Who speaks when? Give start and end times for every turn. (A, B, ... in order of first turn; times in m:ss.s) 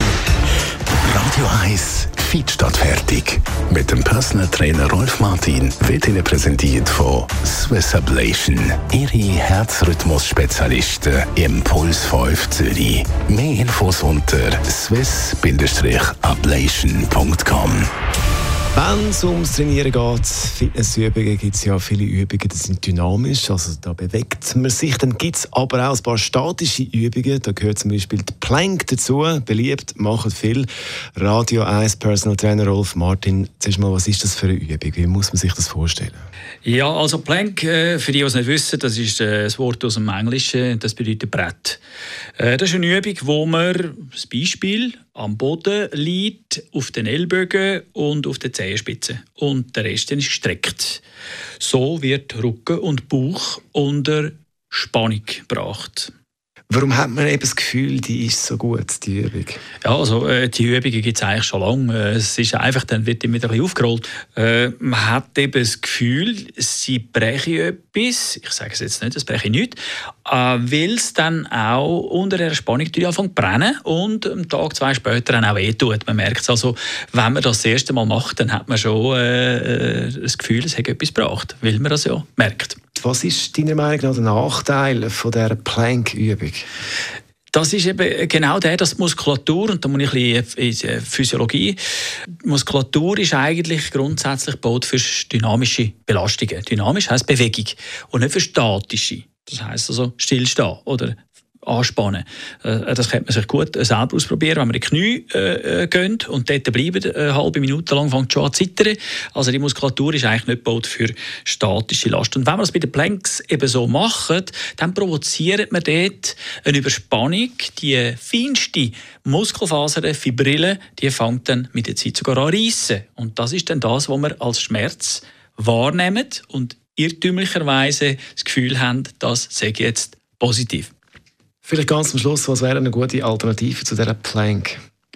0:01.0-0:17.9 A
0:18.7-0:36.2 B
0:36.6-0:41.8 C
0:42.4-0:51.0 C
0:51.6-0:56.1 C
0:56.7-0:59.6 B
0:59.8-1:22.8 C
1:23.0-1:26.6 B
1:27.5-1:31.8 C
1:32.4-2:10.9 C
2:11.6-2:14.8 B